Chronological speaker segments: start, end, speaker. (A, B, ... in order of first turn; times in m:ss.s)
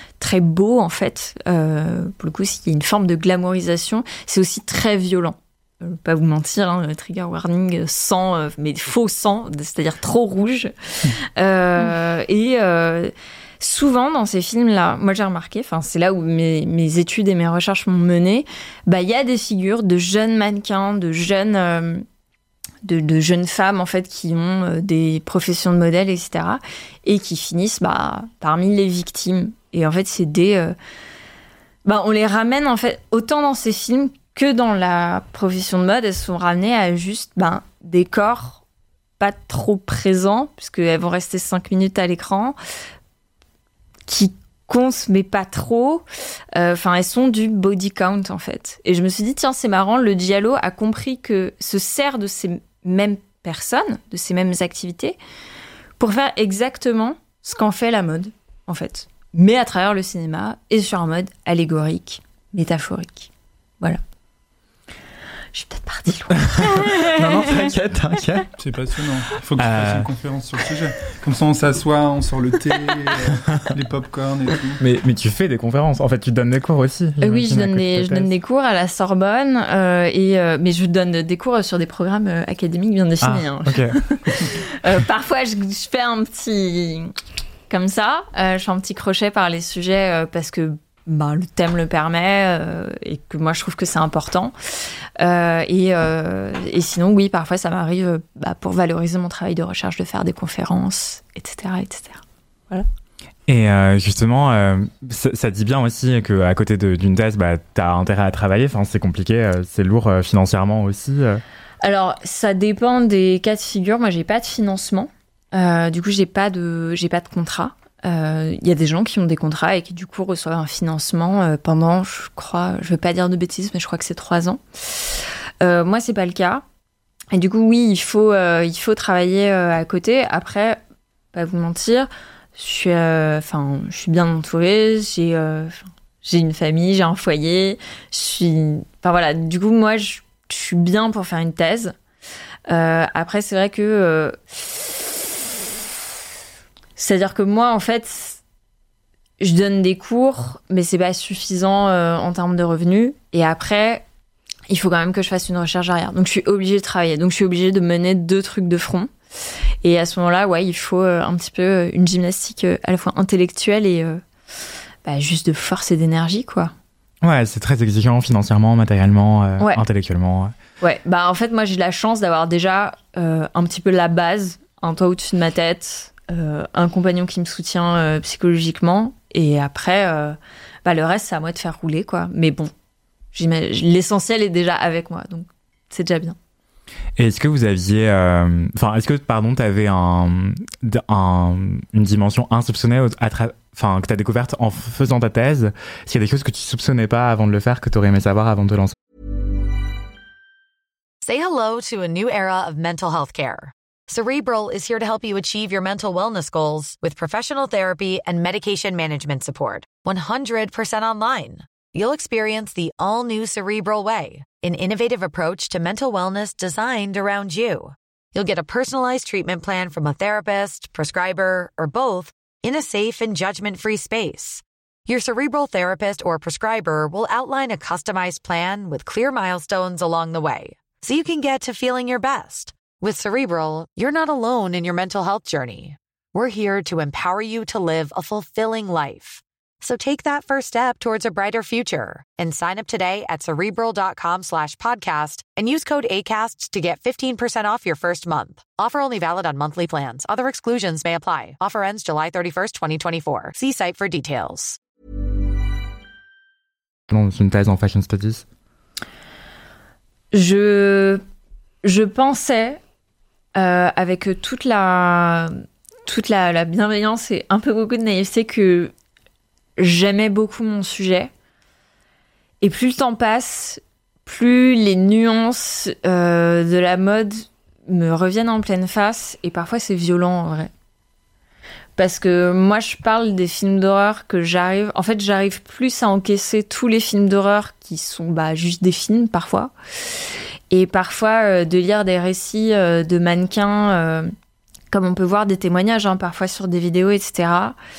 0:00.2-0:22.0 A
0:22.8-0:30.8 A
0:31.8-0:38.6 A
0:39.2-0:42.6 A
0:44.1-0:55.2 A
0:56.0-1:04.0 A
1:05.5-1:07.5 A
1:06.4-1:08.5 B
1:08.6-1:14.8 C
1:09.6-1:10.1 B
1:14.8-1:18.3 B
1:17.2-1:27.1 A
1:23.2-1:24.5 B
1:27.7-1:34.5 A
1:35.2-1:42.9 A
1:43.5-1:51.4 B
1:51.8-2:06.6 A
2:07.3-2:10.8 A
2:11.3-2:22.0 A
2:22.7-2:25.4 A
2:27.0-2:28.4 A
2:29.4-2:34.0 A
2:34.7-2:39.1 A
2:39.8-2:44.2 A
2:45.0-2:46.7 A
2:47.2-2:50.6 B
2:50.8-3:02.7 A
3:03.3-3:06.4 A
3:07.2-3:18.9 B
3:21.2-4:14.8 D
4:17.1-4:18.4 B
4:20.3-4:21.2 A
4:21.8-4:22.8 A
4:23.5-4:25.5 A
4:26.0-4:28.9 A
4:29.8-4:31.3 A
4:32.6-4:40.7 A
4:42.0-4:49.7 A
4:50.7-4:54.3 A
4:54.9-4:57.8 A